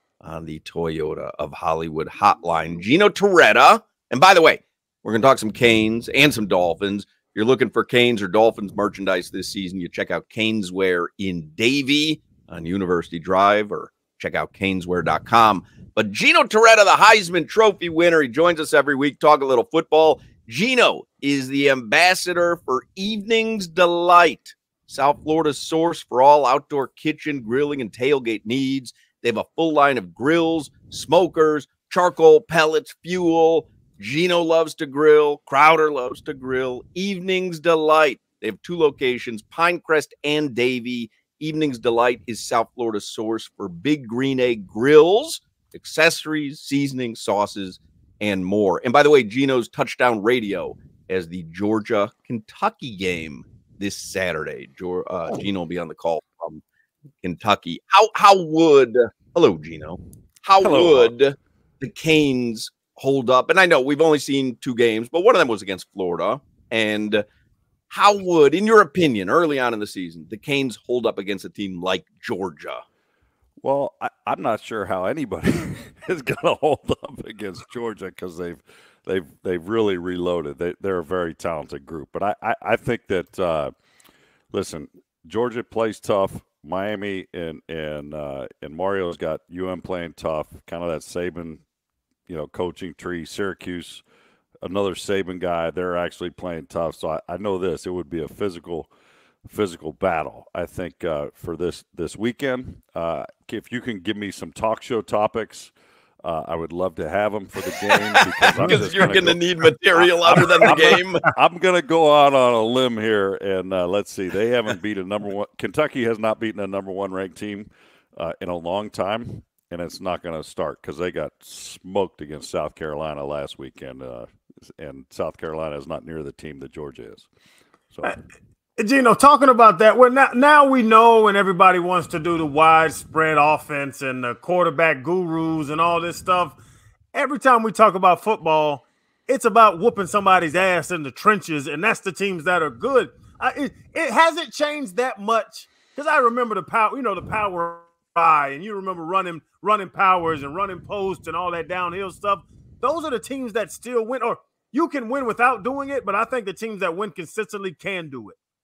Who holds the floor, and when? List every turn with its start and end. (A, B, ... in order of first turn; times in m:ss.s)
0:00.2-0:56.6 A
0:57.2-1:07.2 A
1:00.6-1:01.1 B
1:07.9-1:12.8 A
1:13.6-1:23.7 B
1:24.5-1:31.6 B
1:32.3-1:34.0 B
1:34.6-1:38.9 B
1:39.5-1:49.4 B
1:47.9-1:51.2 A
1:50.0-2:07.3 B
2:08.8-2:16.6 C
2:17.1-2:38.4 C